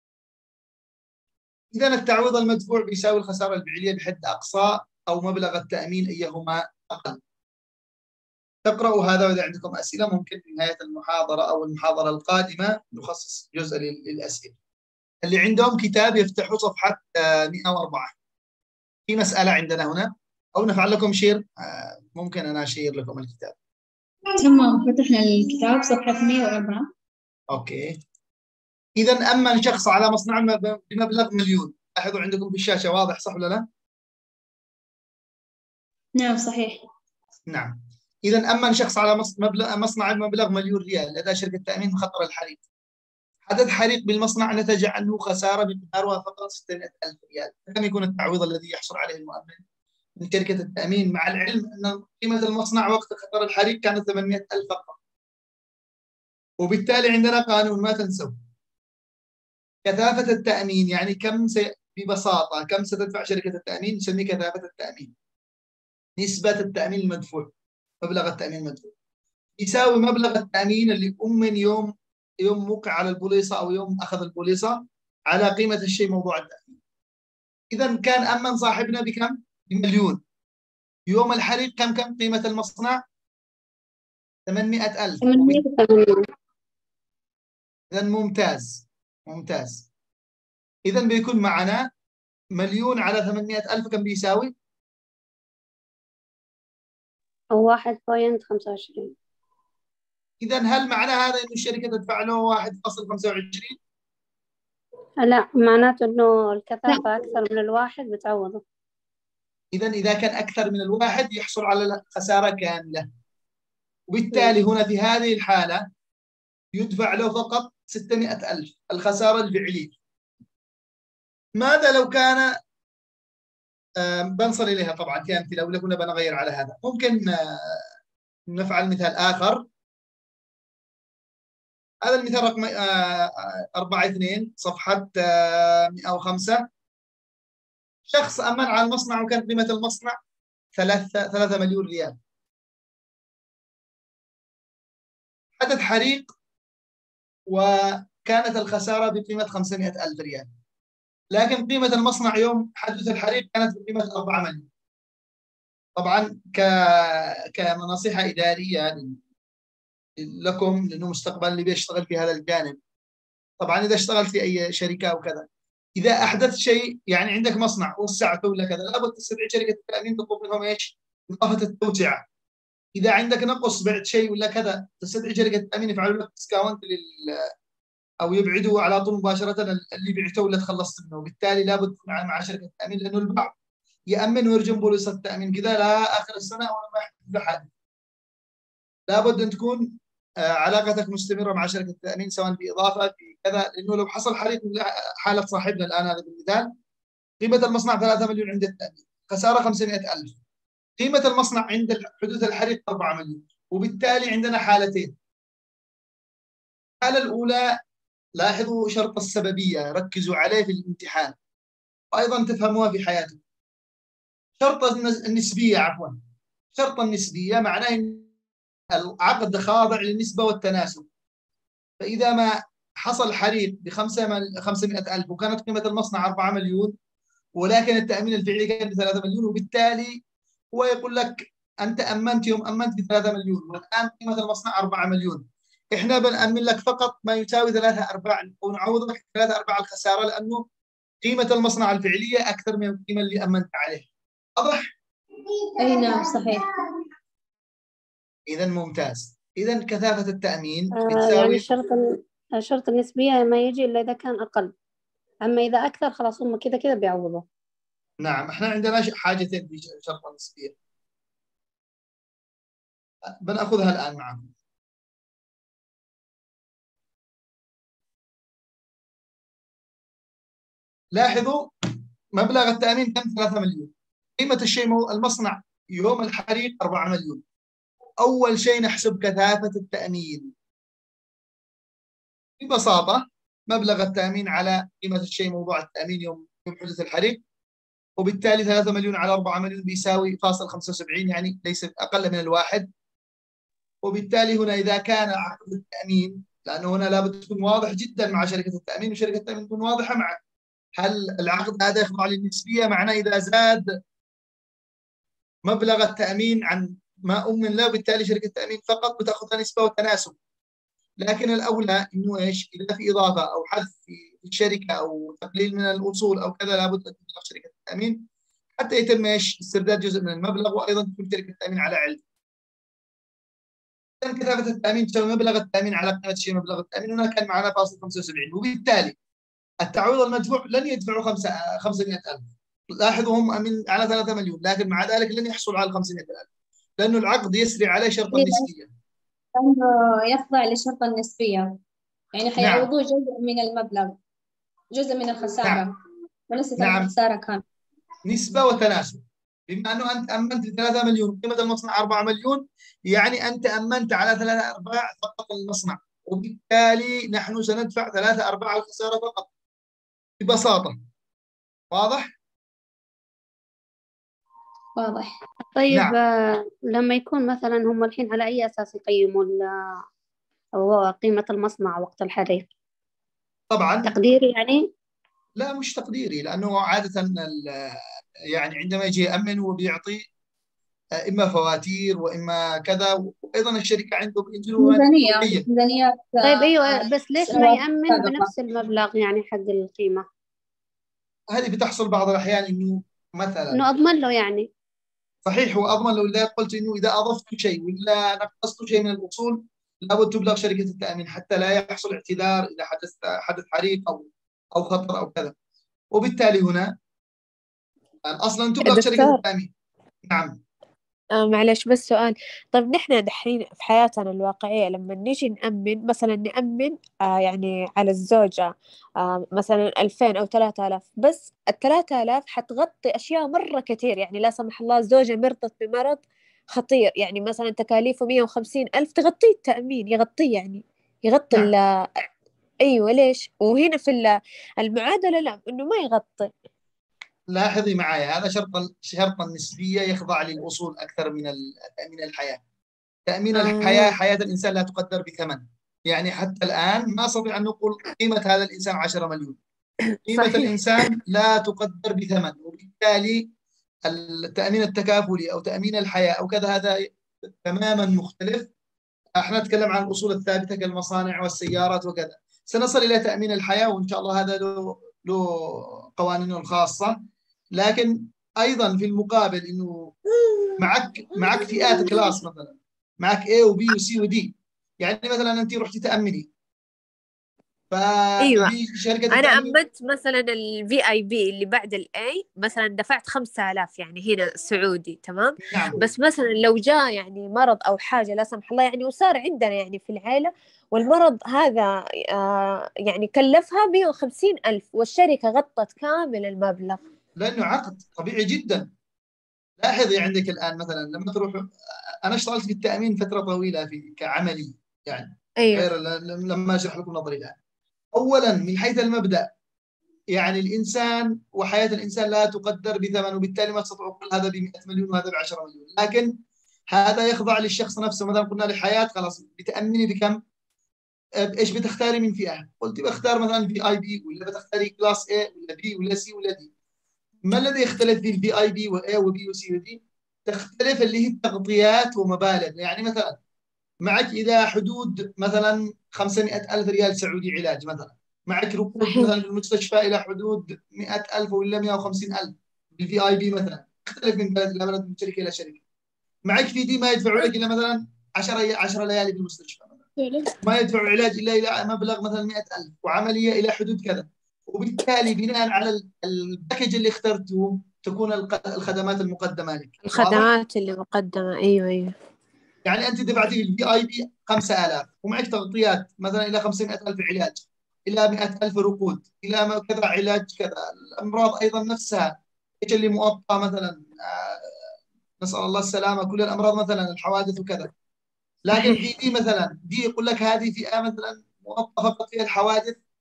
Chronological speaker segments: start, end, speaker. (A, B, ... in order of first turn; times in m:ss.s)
0:01.7-0:07.2 A
0:08.6-0:14.5 A
0:15.2-0:18.1 A
0:19.1-0:23.5 A
0:24.4-0:26.9 B
0:27.5-0:28.0 A
0:29.0-0:33.6 A
0:36.2-0:36.8 B
0:37.5-0:42.6 A
0:43.5-0:49.6 A
0:50.2-0:55.0 A
0:56.6-0:58.3 A
0:59.8-1:05.1 A
1:06.2-1:07.5 A
1:08.0-1:08.9 A
1:09.6-1:16.8 A
1:17.7-1:20.2 A
1:21.1-1:23.0 A
1:24.5-1:25.6 A
1:25.2-1:25.7 B
1:25.4-1:26.2 C
1:27.9-1:29.9 A
1:30.9-1:31.9 A
1:32.6-1:34.5 A
1:37.5-1:39.1 C
1:40.4-1:43.8 A
1:45.2-1:48.6 C
1:49.7-1:53.1 A
1:54.1-1:55.9 A
1:56.7-2:00.0 A
2:01.6-2:02.5 A
2:04.0-2:07.8 A
2:08.5-2:09.6 A
2:12.0-2:16.6 A
2:18.1-2:20.2 A
2:20.8-2:22.2 A
2:25.6-2:26.3 A
2:27.5-2:30.5 A
2:31.3-2:34.6 A
2:36.0-2:39.2 A
2:40.2-2:42.8 A
2:43.6-2:45.5 A
2:46.0-2:52.2 A
2:53.0-2:57.5 A
2:58.2-3:03.5 A
3:04.1-3:07.7 A
3:09.1-3:16.7 A
3:17.4-3:20.4 A
3:21.0-3:25.1 A
3:27.0-3:27.7 A
3:28.4-3:31.3 A
3:32.1-3:33.4 A
3:34.6-3:36.2 A
3:36.7-3:38.3 A
3:38.9-3:41.0 A
3:42.0-3:46.9 A
3:47.6-3:50.2 A
3:50.7-4:00.6 A
4:01.2-4:04.1 A
4:04.6-4:04.8 A
4:05.8-4:06.8 B
4:08.5-4:11.7 A
4:10.9-4:14.7 C
4:15.5-4:17.4 C
4:18.2-4:20.7 A
4:23.4-4:24.5 A
4:31.1-4:31.7 A
4:32.4-4:37.4 A
4:38.2-4:40.5 A
4:42.6-4:47.4 A
4:48.2-4:52.9 A
4:54.0-5:00.4 A
5:01.0-5:03.9 A
5:05.6-5:10.4 A
5:11.2-5:18.2 A
5:18.8-5:22.2 A
5:24.2-5:29.2 A
5:29.8-5:36.5 A
5:37.0-5:38.9 A
5:38.3-5:38.7 B
5:39.5-5:41.8 B
5:42.3-5:44.2 B
5:42.6-5:42.9 A
5:44.9-5:45.9 B
5:46.5-5:47.6 B
5:46.8-5:47.1 A
5:48.3-5:59.5 A
6:00.4-6:01.0 A
6:01.9-6:02.3 A
6:05.0-6:05.4 B
6:05.8-6:09.7 C
6:10.8-6:12.7 C
6:13.7-6:14.1 A
6:14.0-6:14.8 C
6:15.6-6:18.0 A
6:18.5-6:20.2 A
6:21.2-6:25.6 A
6:24.8-6:28.5 B
6:26.4-6:30.2 C
6:31.5-6:33.8 A
6:33.7-6:34.7 C
6:35.4-6:45.5 A
6:46.1-6:46.9 A
6:48.3-6:49.7 A
6:48.8-6:49.4 D
6:50.3-6:50.6 A
6:51.3-7:06.2 D
7:06.7-7:12.0 D
7:12.8-7:16.5 D
7:17.5-7:22.6 A
7:23.3-7:29.6 A
7:23.5-7:24.2 D
7:30.1-7:30.7 D
7:30.2-7:33.4 A
7:34.1-7:38.7 A
7:39.4-7:47.2 A
7:47.7-7:50.1 A
7:50.8-7:56.5 A
7:51.7-7:52.2 D
7:57.9-7:59.8 A
7:58.4-7:58.7 D
7:59.3-8:17.0 D
8:05.6-8:06.0 A
8:17.4-8:18.9 A
8:19.8-8:21.7 A
8:22.2-8:27.6 A
8:25.6-8:25.9 D
8:28.1-8:29.5 A
8:30.3-8:36.3 A
8:36.9-8:40.4 A
8:41.5-8:46.7 A
8:47.5-8:53.4 A
8:54.0-9:05.8 A
8:59.0-8:59.3 D
9:06.5-9:10.0 A
9:10.2-9:10.5 D
9:10.6-9:20.5 A
9:20.0-9:22.1 D
9:22.8-9:34.8 A
9:35.4-9:37.9 A
9:38.6-9:43.0 A